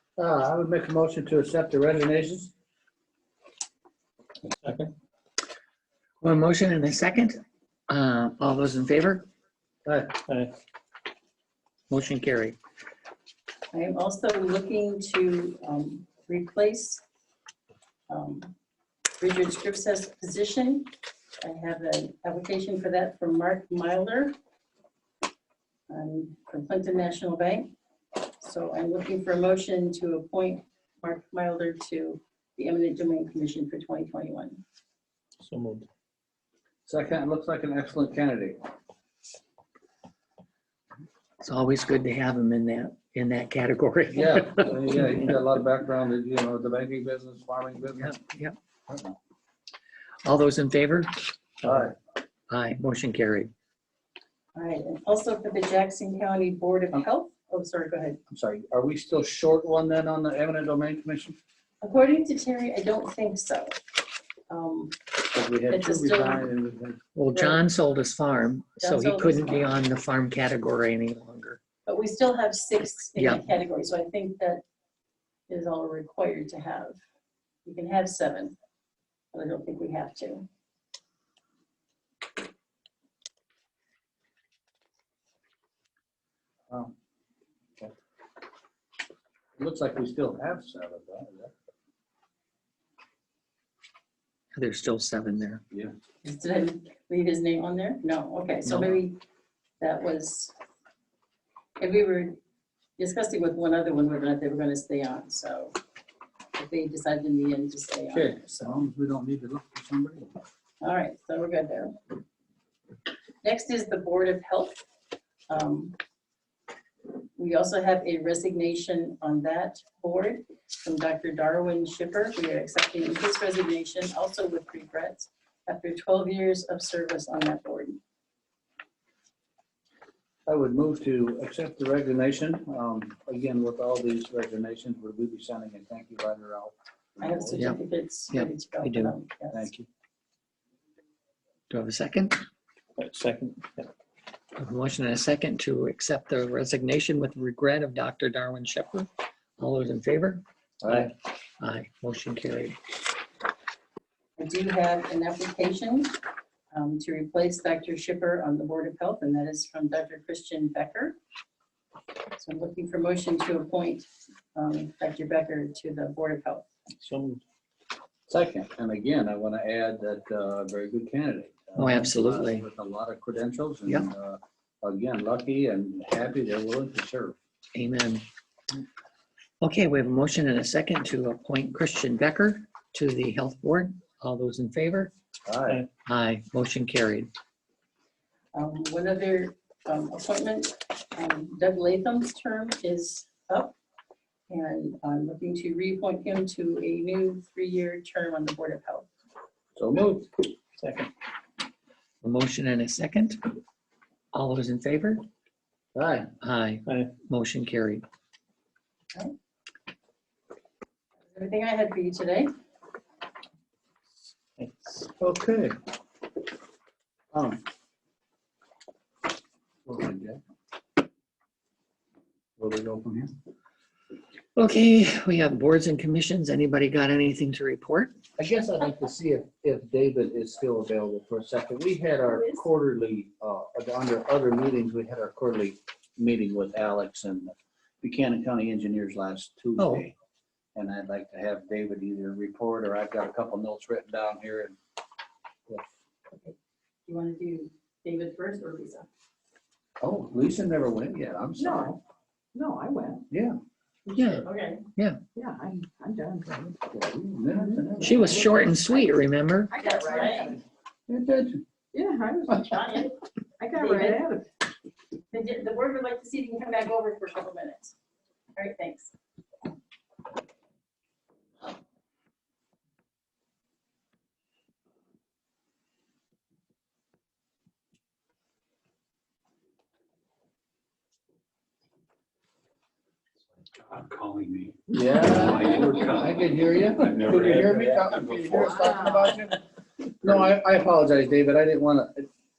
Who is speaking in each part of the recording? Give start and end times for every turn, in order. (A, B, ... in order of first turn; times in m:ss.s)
0:00.2-0:02.5 A
0:04.6-0:04.9 B
0:06.2-0:09.3 C
0:09.8-0:10.2 A
0:11.9-0:12.6 C
0:13.7-0:17.0 D
0:18.1-0:18.5 D
0:19.2-0:24.3 D
0:25.9-0:27.7 D
0:28.4-0:34.6 D
0:35.4-0:35.9 B
0:36.9-0:38.6 A
0:41.4-0:44.9 C
0:44.1-0:48.1 A
0:48.0-0:48.6 C
0:48.9-0:49.2 A
0:50.2-0:51.1 C
0:51.6-0:51.9 C
0:51.6-0:51.9 A
0:52.5-0:53.5 C
0:54.5-0:58.2 D
0:58.3-1:01.4 A
1:01.8-1:03.8 D
1:04.5-1:05.0 D
1:05.3-1:07.0 A
1:05.7-1:06.4 D
1:07.1-1:11.6 C
1:07.3-1:07.6 D
1:08.8-1:09.6 D
1:11.8-1:14.6 D
1:13.2-1:13.5 C
1:15.5-1:17.0 D
1:17.6-1:18.5 D
1:19.3-1:20.4 D
1:29.6-1:31.5 A
1:34.6-1:35.6 C
1:36.2-1:39.2 D
1:38.6-1:39.0 C
1:39.8-1:40.5 D
1:41.8-1:42.4 D
1:43.0-1:45.8 D
1:46.6-1:48.8 D
1:48.1-1:50.3 A
1:50.8-1:52.0 D
1:53.4-1:54.8 D
1:55.5-1:56.0 D
1:57.4-2:08.0 D
2:10.5-2:17.7 A
2:17.2-2:19.7 D
2:17.6-2:19.1 C
2:19.5-2:19.9 A
2:21.7-2:22.4 C
2:23.0-2:23.9 B
2:24.6-2:32.8 C
2:30.8-2:31.1 A
2:34.4-2:36.1 D
2:36.7-2:41.2 D
2:42.3-2:46.6 D
2:47.0-2:47.4 B
2:48.3-2:57.4 A
2:51.8-2:52.6 C
2:57.7-2:58.2 C
2:59.6-3:05.1 C
3:05.4-3:05.8 A
3:06.0-3:07.3 C
3:08.5-3:13.7 D
3:14.5-3:19.1 D
3:19.8-3:20.3 A
3:20.8-3:21.1 B
3:22.2-3:23.4 C
3:24.3-3:25.2 C
3:25.9-3:26.3 A
3:26.4-3:28.0 C
3:26.9-3:27.1 B
3:31.3-3:32.5 D
3:34.6-3:35.1 B
3:35.2-3:35.8 A
3:37.3-3:37.6 A
3:39.8-3:40.4 A
3:42.6-3:43.3 A
3:44.6-3:48.1 C
3:48.4-4:00.1 A
3:52.3-3:52.6 D
3:59.8-4:00.0 C
4:00.7-4:04.8 A
4:07.1-4:09.1 D
4:10.0-4:11.9 A
4:11.6-4:12.0 E
4:12.5-4:13.2 E
4:13.3-4:13.6 A
4:14.1-4:14.3 E
4:14.1-4:15.2 C
4:14.4-4:14.8 D
4:15.3-4:16.8 E
4:16.8-4:18.5 A
4:17.5-4:18.6 E
4:18.0-4:19.7 C
4:19.7-4:20.6 E
4:19.8-4:20.6 D
4:21.1-4:21.6 A
4:21.9-4:24.5 E
4:22.7-4:23.1 D
4:23.7-4:24.2 D
4:25.3-4:27.9 D
4:28.6-4:29.1 D
4:43.7-4:46.4 F
4:44.9-4:49.6 A
4:47.0-4:48.8 F
4:48.5-4:49.3 E
4:50.2-4:52.3 A